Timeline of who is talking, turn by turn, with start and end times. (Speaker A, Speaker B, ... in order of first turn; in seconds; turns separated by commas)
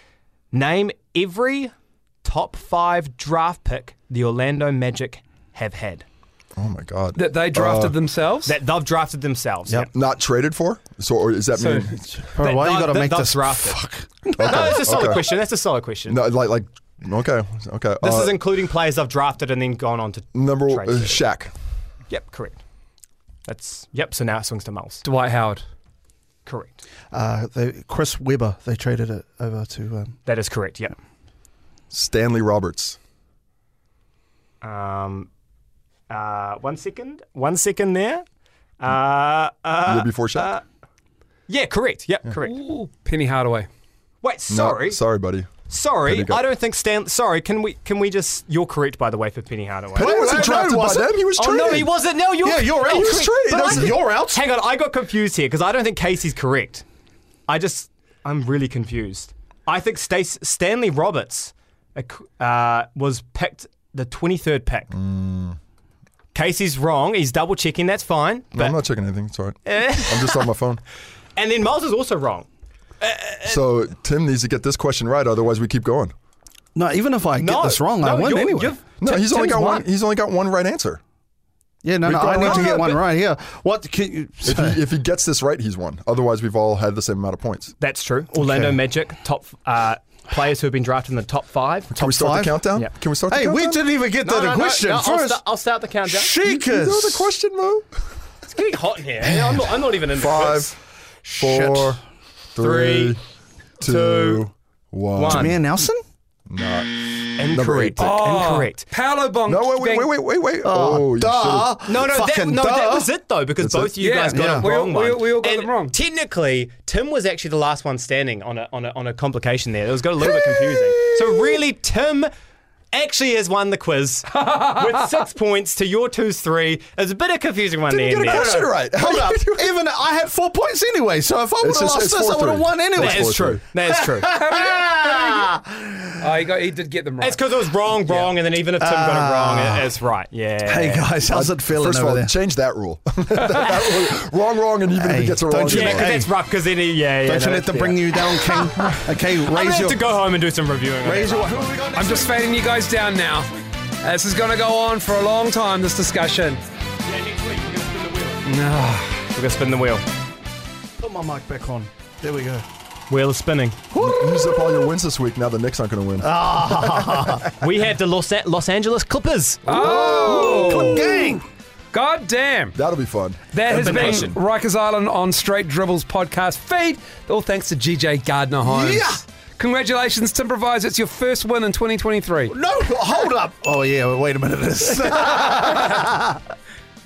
Speaker A: 0.5-1.7, Speaker A: 2.2-6.0, Speaker B: 6.5-8.0, Speaker C: 7.1-8.6, Speaker A: 8.4-9.9, Speaker B: 9.9-12.0, Speaker C: 11.5-11.9, Speaker D: 12.1-15.3, Speaker A: 12.4-13.8, Speaker B: 14.4-15.3, Speaker A: 14.4-16.2, Speaker B: 16.1-18.4, Speaker A: 18.0-21.5, Speaker B: 20.3-21.5, Speaker A: 22.1-22.6, Speaker A: 23.4-25.0, Speaker C: 25.0-25.6, Speaker A: 26.4-26.8, Speaker D: 27.1-30.1, Speaker A: 30.2-30.9, Speaker B: 31.9-33.0, Speaker A: 34.6-35.3, Speaker A: 36.1-38.2, Speaker A: 38.8-40.6, Speaker B: 39.9-40.5, Speaker A: 41.5-42.6, Speaker C: 42.4-43.7, Speaker A: 44.2-45.0, Speaker B: 44.5-45.5, Speaker A: 45.7-50.5, Speaker B: 46.0-46.4, Speaker B: 49.9-51.9, Speaker D: 50.0-51.2, Speaker A: 51.4-56.8, Speaker D: 52.4-54.4, Speaker B: 52.8-53.9, Speaker A: 57.5-64.9, Speaker B: 64.9-65.6, Speaker A: 66.3-68.8, Speaker B: 68.5-70.8, Speaker A: 69.7-70.5, Speaker A: 71.4-72.5, Speaker A: 73.0-73.6, Speaker B: 73.4-76.1, Speaker D: 76.8-78.8, Speaker A: 77.4-79.8, Speaker B: 79.0-81.0, Speaker D: 81.8-84.8, Speaker B: 82.0-82.9, Speaker A: 82.4-83.0, Speaker B: 84.4-87.7, Speaker A: 87.8-91.9, Speaker D: 88.3-88.8, Speaker B: 91.9-93.8, Speaker D: 92.0-92.7, Speaker D: 93.3-95.4, Speaker A: 94.2-96.4, Speaker D: 96.1-97.3, Speaker B: 96.4-97.9, Speaker A: 98.5-100.7, Speaker D: 99.2-99.9, Speaker B: 100.1-100.7, Speaker D: 101.2-102.0, Speaker B: 101.4-102.0, Speaker B: 102.5-103.2, Speaker A: 102.6-103.2, Speaker A: 103.8-104.5, Speaker B: 103.8-105.5, Speaker A: 105.1-105.6, Speaker D: 105.3-106.0, Speaker B: 106.5-108.1, Speaker A: 107.4-108.9, Speaker C: 108.0-110.1, Speaker B: 109.5-111.8, Speaker D: 110.6-113.1, Speaker A: 111.8-122.3, Speaker B: 113.6-113.9, Speaker C: 114.0-115.9, Speaker D: 114.3-114.7, Speaker A: 122.9-128.7, Speaker C: 124.3-124.9, Speaker B: 127.9-129.8, Speaker D: 128.3-136.1, Speaker B: 131.6-133.6, Speaker A: 132.9-134.4, Speaker C: 134.3-135.5, Speaker C: 136.2-137.4, Speaker A: 137.2-141.1, Speaker C: 137.9-138.3, Speaker D: 138.8-139.9, Speaker D: 140.6-142.3, Speaker B: 141.3-146.2, Speaker D: 144.9-146.3, Speaker A: 145.7-148.7, Speaker D: 147.2-150.0, Speaker A: 149.3-151.9, Speaker D: 151.0-152.5, Speaker C: 151.9-153.5, Speaker C: 154.0-156.6, Speaker A: 157.0-158.4, Speaker C: 158.4-159.2, Speaker A: 159.3-160.0, Speaker D: 161.0-162.7, Speaker A: 163.1-163.8, Speaker D: 163.9-164.8, Speaker B: 163.9-167.4, Speaker D: 166.2-167.5, Speaker A: 167.6-169.7, Speaker C: 169.7-171.2, Speaker D: 169.7-171.4, Speaker C: 171.9-172.8, Speaker B: 172.8-174.4, Speaker C: 173.5-182.6, Speaker D: 173.7-174.3, Speaker D: 178.6-179.2, Speaker D: 182.5-186.4, Speaker C: 185.2-186.0